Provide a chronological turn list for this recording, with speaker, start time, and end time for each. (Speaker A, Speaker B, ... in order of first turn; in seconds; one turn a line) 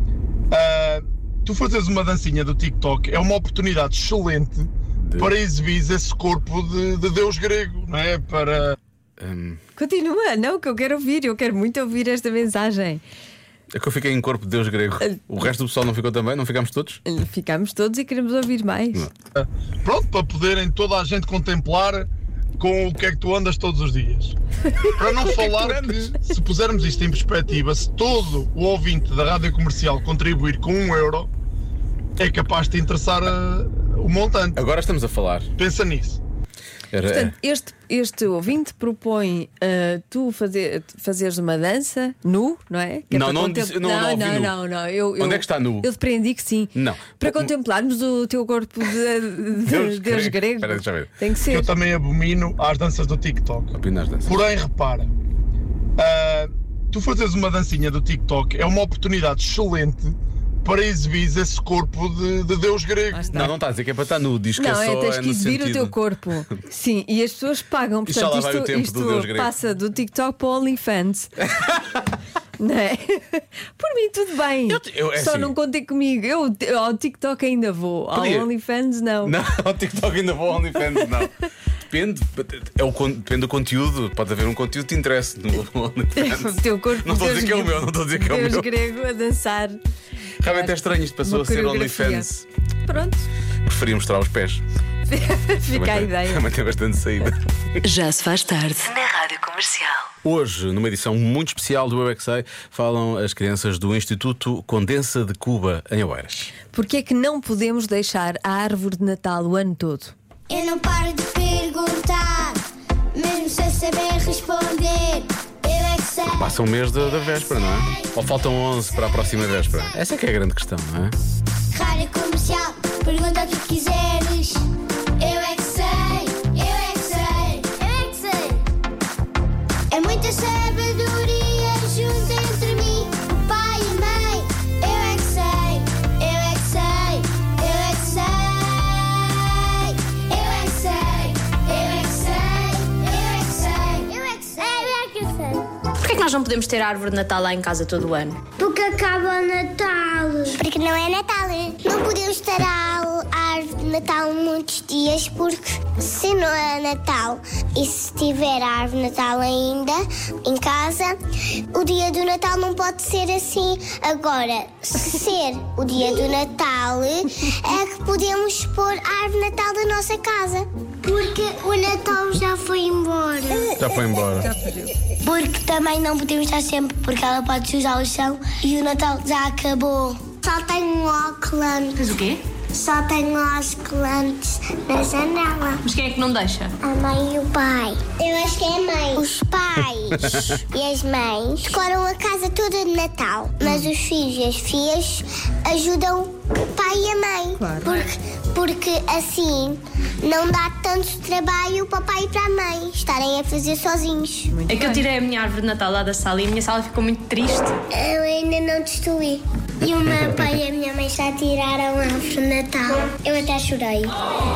Speaker A: 0.5-8.8
Speaker B: 5.0-5.3
Speaker B: 9.2-9.6
Speaker C: 9.8-13.0
Speaker B: 13.7-17.0
Speaker C: 17.1-19.1
Speaker A: 19.4-24.4
Speaker A: 25.0-31.3
Speaker B: 25.3-26.1
Speaker A: 32.2-34.6
Speaker B: 34.6-35.5
Speaker A: 35.6-36.2
Speaker B: 36.9-37.3
Speaker C: 37.1-51.7
Speaker B: 43.1-44.6
Speaker B: 45.2-45.9
Speaker B: 46.8-47.5
Speaker B: 49.6-51.1
Speaker A: 51.5-55.1
Speaker B: 53.8-54.4
Speaker A: 56.0-63.3
Speaker C: 63.1-63.5
Speaker B: 63.3-66.0
Speaker C: 64.6-71.3
Speaker B: 68.1-69.5
Speaker B: 71.5-71.8
Speaker C: 72.6-79.3
Speaker B: 74.7-75.5
Speaker B: 78.1-78.5
Speaker B: 79.2-81.3
Speaker B: 81.9-88.7
Speaker C: 86.2-89.8
Speaker B: 90.4-92.5
Speaker C: 90.4-92.3
Speaker C: 92.9-93.2
Speaker B: 93.7-94.6
Speaker C: 95.1-96.5
Speaker B: 95.7-97.4
Speaker D: 97.8-100.1
Speaker B: 100.2-106.5
Speaker C: 106.7-110.1
Speaker E: 110.5-112.6
Speaker E: 113.2-116.6
Speaker B: 116.3-121.2
Speaker E: 117.8-118.0
Speaker E: 121.7-124.6
Speaker E: 125.2-128.6
Speaker E: 129.9-145.7
Speaker F: 146.0-148.4
Speaker E: 148.6-161.2
Speaker E: 161.7-173.8
Speaker B: 173.8-174.5
Speaker C: 174.4-174.9
Speaker E: 175.2-182.0
Speaker F: 182.0-182.4
Speaker E: 182.7-185.8
Speaker F: 185.8-186.7
Speaker E: 186.8-204.5
Speaker B: 190.2-190.6
Speaker C: 197.6-198.1
Speaker C: 204.5-205.1
Speaker F: 204.7-207.8
Speaker E: 207.9-214.1